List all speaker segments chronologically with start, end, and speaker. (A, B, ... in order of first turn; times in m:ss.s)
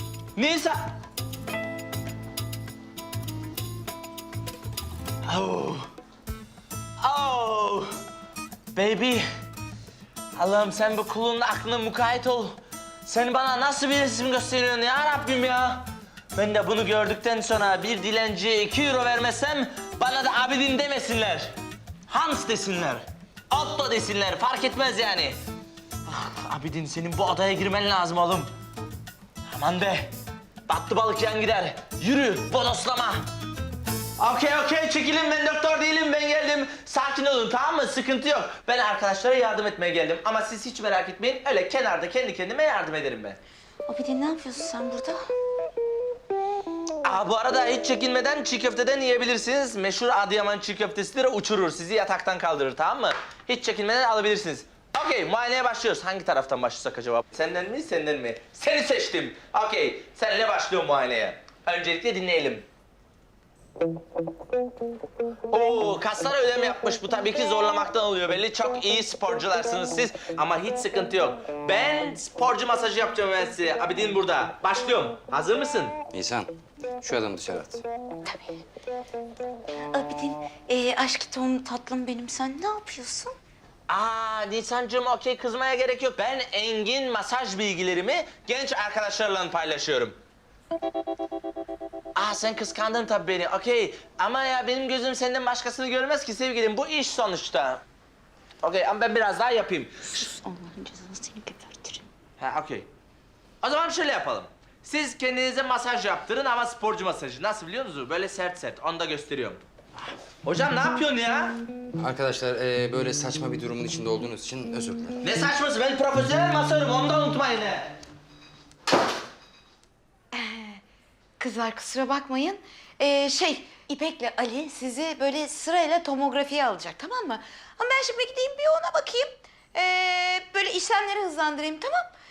0:00.4-0:00.9 A
0:05.3-0:05.9 A
0:07.0-0:07.9 A
0:08.7-0:09.3 A
0:10.4-0:21.5 A
0:22.1-0:25.4 A
0:26.1-0:28.5 A
0:29.4-0:30.1 A
0:30.7-0:33.2 A
0:34.2-0:43.4 A
0:43.9-0:45.2 B
0:47.0-1:02.6 A
1:05.5-1:16.0 A
1:16.1-1:17.8 C
1:18.3-1:18.6 B
1:19.9-1:23.4 B
1:23.9-1:30.2 A
1:32.2-1:37.8 A
1:38.6-1:40.3 A
1:40.2-1:42.1 B
1:42.4-1:42.9 A
1:43.6-1:49.6 A
1:50.4-1:51.6 A
1:52.0-1:55.2 C
1:55.2-1:58.0 A
2:00.3-2:00.8 B
2:01.4-2:12.1 B